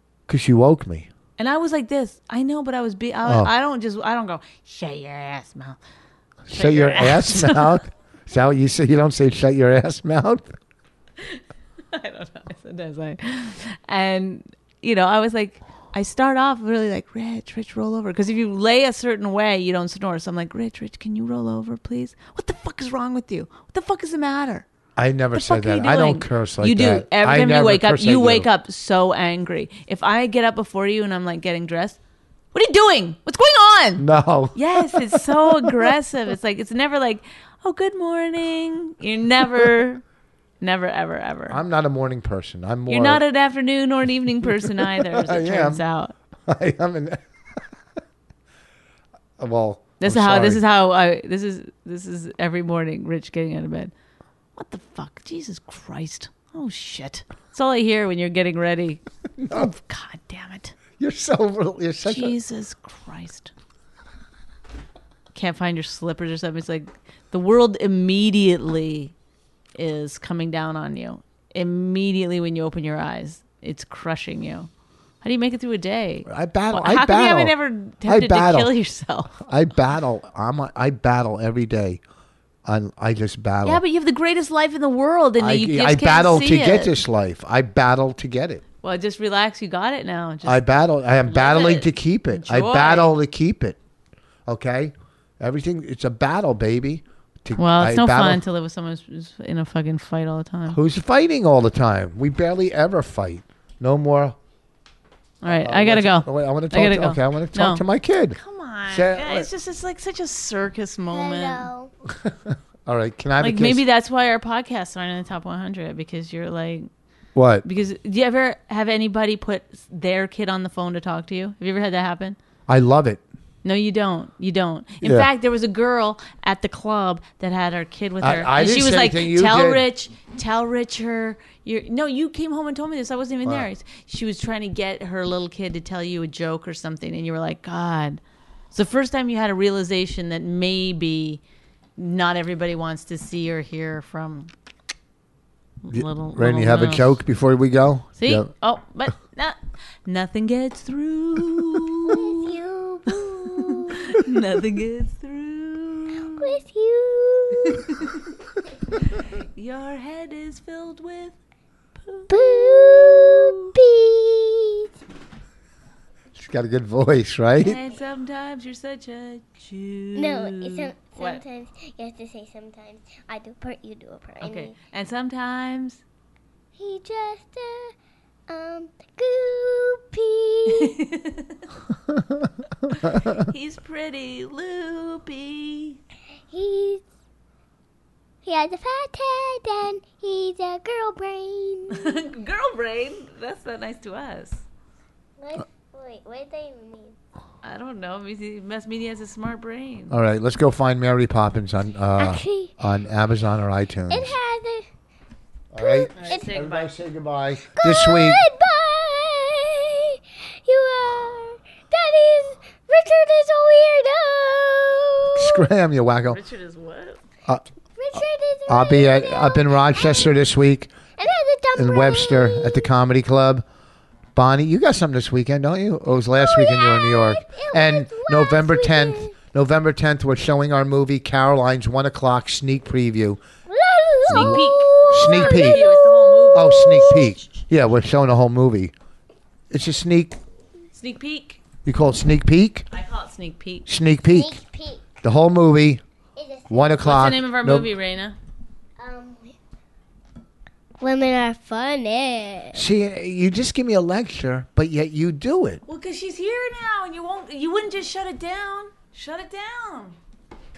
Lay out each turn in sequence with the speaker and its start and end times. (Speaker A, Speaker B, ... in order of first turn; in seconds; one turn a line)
Speaker A: 0.3-1.1
Speaker B: 1.4-5.8
Speaker A: 3.2-3.5
Speaker A: 6.5-10.5
Speaker B: 6.5-7.8
Speaker B: 11.9-24.6
Speaker A: 24.9-28.5
Speaker B: 25.3-32.0
Speaker B: 32.5-40.0
Speaker A: 34.0-35.9
Speaker B: 40.6-41.6
Speaker A: 41.5-43.2
Speaker B: 42.9-46.1
Speaker A: 44.4-45.8
Speaker A: 46.5-47.2
Speaker A: 49.4-50.6
Speaker B: 50.0-53.9
Speaker B: 54.5-60.7
Speaker A: 59.4-59.7
Speaker A: 61.0-62.4
Speaker B: 62.0-63.5
Speaker B: 65.3-69.1
Speaker B: 69.7-74.7
Speaker B: 75.2-79.3
Speaker A: 76.2-78.7
Speaker A: 79.3-82.0
Speaker A: 82.6-83.8
Speaker B: 83.6-86.9
Speaker A: 85.4-88.6
Speaker B: 88.8-90.6
Speaker A: 90.4-93.8
Speaker B: 91.3-93.2
Speaker A: 94.5-98.4
Speaker B: 97.5-100.8
Speaker A: 100.7-104.4
Speaker B: 105.4-111.7
Speaker A: 105.5-109.5
Speaker C: 111.1-111.9
Speaker A: 112.1-113.8
Speaker B: 113.4-116.9
Speaker A: 117.3-117.7
Speaker B: 117.6-122.4
Speaker A: 122.7-123.2
Speaker B: 123.6-138.2
Speaker A: 125.0-125.3
Speaker A: 128.2-129.8
Speaker B: 138.7-141.4
Speaker B: 142.0-144.5
Speaker B: 145.8-147.1
Speaker A: 145.9-148.5
Speaker B: 148.2-152.5
Speaker C: 152.0-154.2
Speaker B: 153.4-156.6
Speaker C: 156.3-157.9
Speaker B: 159.0-161.3
Speaker C: 162.3-164.9
Speaker A: 166.3-167.8
Speaker B: 167.6-171.4
Speaker C: 170.2-174.7
Speaker B: 174.4-176.0
Speaker C: 176.8-177.9
Speaker C: 178.5-181.0
Speaker B: 180.7-181.5
Speaker B: 182.9-186.0
Speaker C: 186.5-187.0
Speaker C: 188.4-192.2
Speaker B: 191.9-194.6
Speaker C: 195.4-197.2
Speaker B: 197.6-200.2
Speaker A: 200.1-204.3
Speaker C: 202.2-202.7
Speaker C: 204.1-204.8
Speaker A: 205.7-208.4
Speaker C: 205.8-206.5
Speaker B: 206.1-206.9
Speaker C: 207.7-215.7
Speaker A: 215.3-216.4
Speaker B: 216.3-217.2
Speaker C: 217.9-220.3
Speaker A: 218.7-220.9
Speaker C: 221.2-222.9
Speaker A: 221.7-223.6
Speaker A: 224.3-233.4
Speaker C: 226.3-229.3
Speaker C: 233.7-237.4
Speaker A: 234.3-235.8
Speaker B: 234.3-237.0
Speaker A: 236.5-238.9
Speaker A: 239.7-240.4
Speaker B: 240.9-241.6
Speaker A: 241.8-242.9
Speaker B: 242.9-243.9
Speaker A: 243.8-244.6
Speaker C: 244.3-245.1
Speaker A: 245.2-246.0
Speaker C: 246.3-247.2
Speaker A: 246.7-247.9
Speaker B: 247.0-248.3
Speaker C: 249.0-249.5
Speaker C: 251.0-252.9
Speaker A: 252.7-255.8
Speaker B: 255.8-260.1